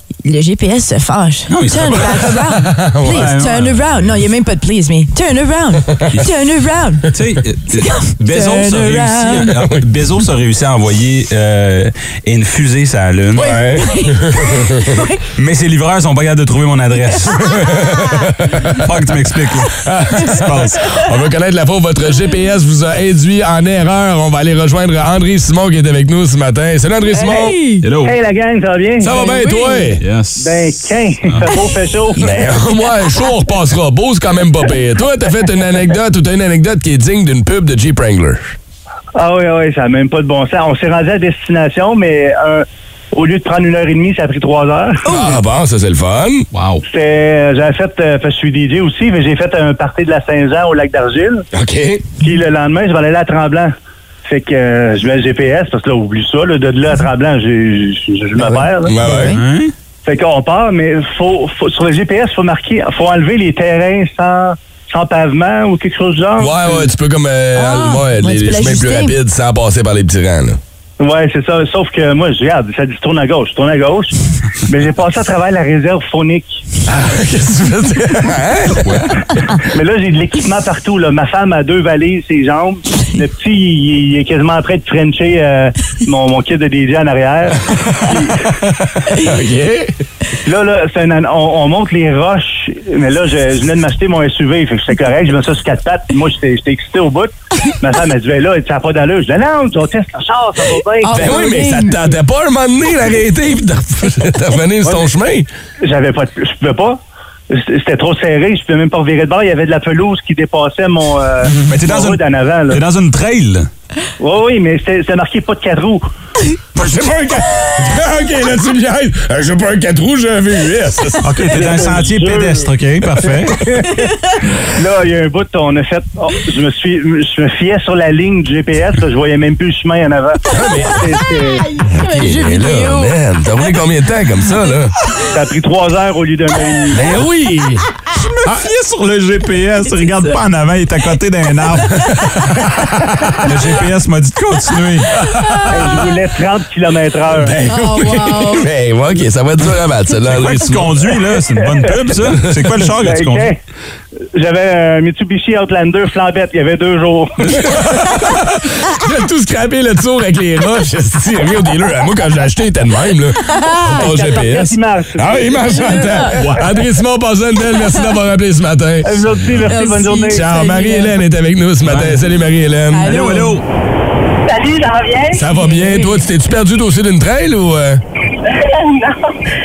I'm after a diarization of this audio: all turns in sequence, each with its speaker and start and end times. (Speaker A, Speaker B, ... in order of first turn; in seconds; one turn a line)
Speaker A: 0.2-7.1
Speaker B: 1.5-2.5
Speaker C: 2.6-3.3
Speaker B: 3.1-4.0
Speaker B: 7.1-13.5
Speaker A: 7.8-9.5
Speaker C: 13.4-14.9
Speaker A: 13.4-15.2
Speaker B: 15.4-17.5
Speaker C: 17.5-18.8
Speaker A: 17.6-18.3
Speaker B: 18.7-20.8
Speaker C: 19.7-27.6
Speaker A: 27.2-27.9
Speaker B: 27.8-28.1
Speaker D: 28.0-29.4
Speaker C: 29.0-30.1
Speaker A: 29.2-29.9
Speaker B: 30.0-31.5
Speaker D: 30.4-32.2
Speaker C: 32.2-38.6
Speaker D: 39.2-45.0
Speaker A: 45.1-45.3
Speaker C: 45.1-46.5
Speaker B: 46.5-46.8
Speaker D: 46.9-51.4
Speaker C: 51.5-52.0
Speaker D: 52.2-53.7
Speaker D: 54.3-59.0
Speaker C: 58.4-59.4
Speaker A: 59.0-59.4
Speaker B: 59.3-59.7
Speaker D: 60.0-66.9
Speaker C: 66.4-70.6
Speaker A: 67.6-69.2
Speaker D: 71.0-74.2
Speaker D: 74.7-76.6
Speaker C: 76.9-78.9
Speaker B: 78.8-79.1
Speaker D: 79.6-88.5
Speaker C: 89.2-89.9
Speaker D: 90.5-101.3
Speaker A: 101.0-102.0
Speaker C: 101.1-105.5
Speaker D: 105.8-107.0
Speaker D: 107.5-112.8
Speaker B: 111.5-113.7
Speaker D: 114.2-116.0
Speaker C: 116.8-121.4
Speaker B: 121.2-123.6
Speaker D: 121.5-123.8
Speaker D: 124.6-131.7
Speaker C: 130.5-131.0
Speaker A: 130.7-133.1
Speaker C: 131.9-134.9
Speaker D: 135.3-137.0
Speaker C: 136.9-137.8
Speaker B: 138.2-142.0
Speaker A: 139.8-140.4
Speaker B: 143.4-145.2
Speaker C: 145.2-146.0
Speaker A: 145.4-145.7
Speaker D: 145.7-147.6
Speaker C: 147.3-151.2
Speaker A: 147.7-148.7
Speaker B: 150.3-153.5
Speaker D: 151.6-151.9
Speaker D: 153.0-153.6
Speaker D: 154.3-157.5
Speaker C: 157.6-169.1
Speaker A: 163.4-164.3
Speaker D: 163.9-166.1
Speaker A: 165.7-166.4
Speaker A: 167.7-168.2
Speaker D: 169.1-170.4
Speaker A: 169.7-171.1
Speaker C: 170.3-173.1
Speaker B: 171.8-172.2
Speaker A: 172.9-173.6
Speaker B: 173.1-173.7
Speaker E: 174.5-175.5
Speaker C: 175.3-178.0
Speaker A: 175.6-176.2
Speaker E: 178.4-179.3